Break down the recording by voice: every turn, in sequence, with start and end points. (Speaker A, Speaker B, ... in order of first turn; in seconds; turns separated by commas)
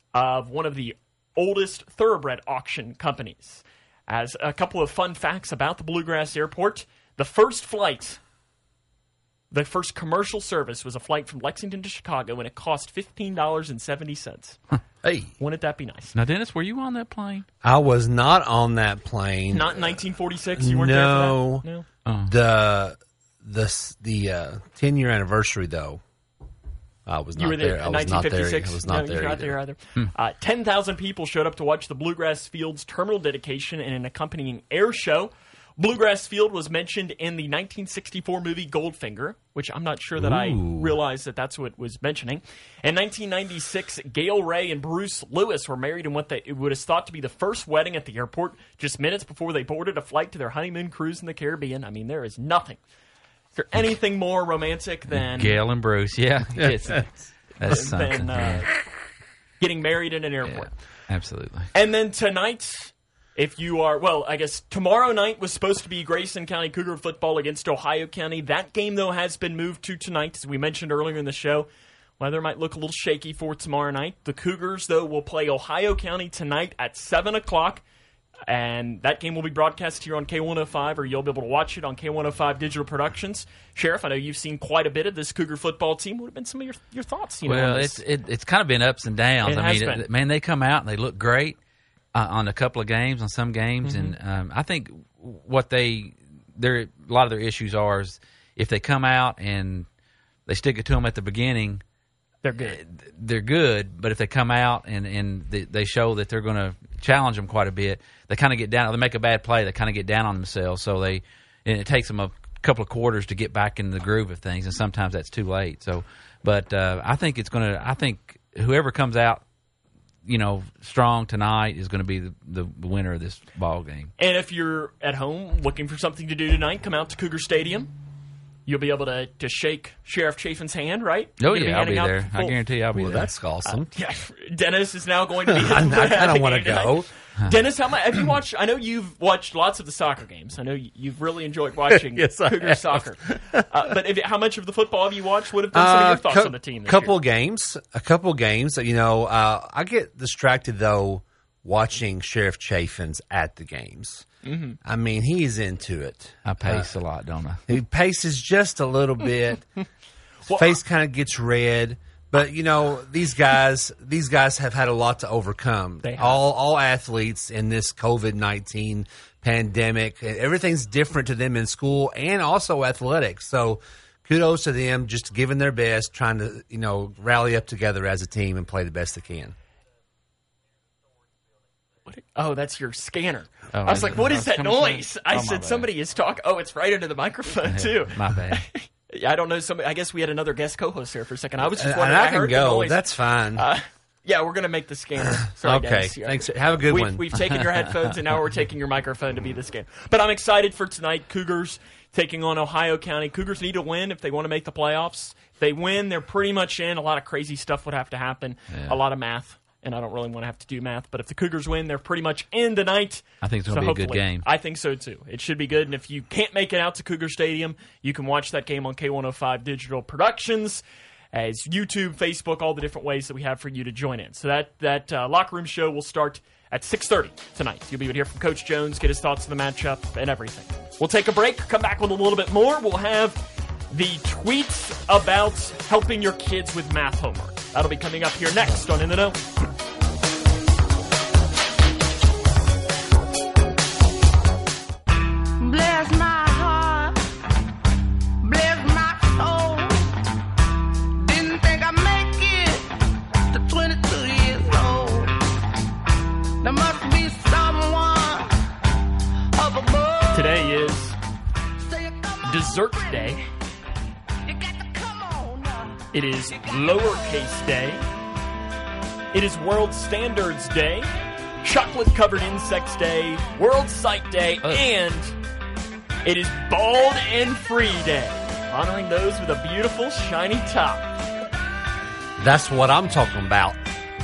Speaker A: 0.1-8.2, Speaker A: 9.5-14.6, Speaker B: 15.0-15.3, Speaker A: 15.4-16.2, Speaker C: 16.1-17.5, Speaker B: 17.6-20.0, Speaker A: 19.5-21.9, Speaker B: 20.6-21.6, Speaker C: 22.1-22.3, Speaker B: 22.2-26.0, Speaker B: 27.1-29.6, Speaker A: 27.4-52.8, Speaker B: 40.2-41.0, Speaker A: 53.5-55.6, Speaker C: 55.1-58.7, Speaker B: 56.6-57.0, Speaker A: 57.6-58.8, Speaker A: 59.6-60.7, Speaker C: 60.5-61.7, Speaker A: 61.7-71.7, Speaker A: 72.2-77.8, Speaker A: 78.5-88.0, Speaker C: 87.5-91.6, Speaker A: 89.4-90.1, Speaker C: 92.1-99.9, Speaker A: 93.8-94.2, Speaker C: 100.5-101.8, Speaker A: 102.4-102.8, Speaker C: 102.6-119.4, Speaker C: 120.2-124.1, Speaker A: 124.2-127.9, Speaker A: 128.7-132.6, Speaker C: 131.4-133.3, Speaker B: 132.9-133.9, Speaker A: 133.7-147.2, Speaker B: 135.5-137.1, Speaker B: 141.9-143.7, Speaker B: 145.7-154.3, Speaker A: 154.4-154.8, Speaker B: 154.8-156.9, Speaker C: 156.4-157.6, Speaker B: 157.7-159.7, Speaker A: 160.4-160.8, Speaker B: 160.5-179.6, Speaker A: 166.0-166.4, Speaker A: 182.1-239.4, Speaker C: 183.7-185.9, Speaker C: 187.7-188.7, Speaker B: 191.6-193.7, Speaker B: 195.4-197.3, Speaker C: 208.7-209.0, Speaker C: 213.4-214.4, Speaker D: 245.6-247.2, Speaker D: 248.4-250.1, Speaker D: 251.2-252.9, Speaker D: 253.5-255.4, Speaker D: 256.6-258.5, Speaker D: 259.6-260.8, Speaker A: 260.3-261.2, Speaker D: 261.8-263.4, Speaker A: 262.4-263.5, Speaker D: 264.5-267.1, Speaker A: 266.1-268.1, Speaker A: 269.3-271.1, Speaker A: 271.6-275.4, Speaker A: 276.2-281.2, Speaker B: 282.4-283.8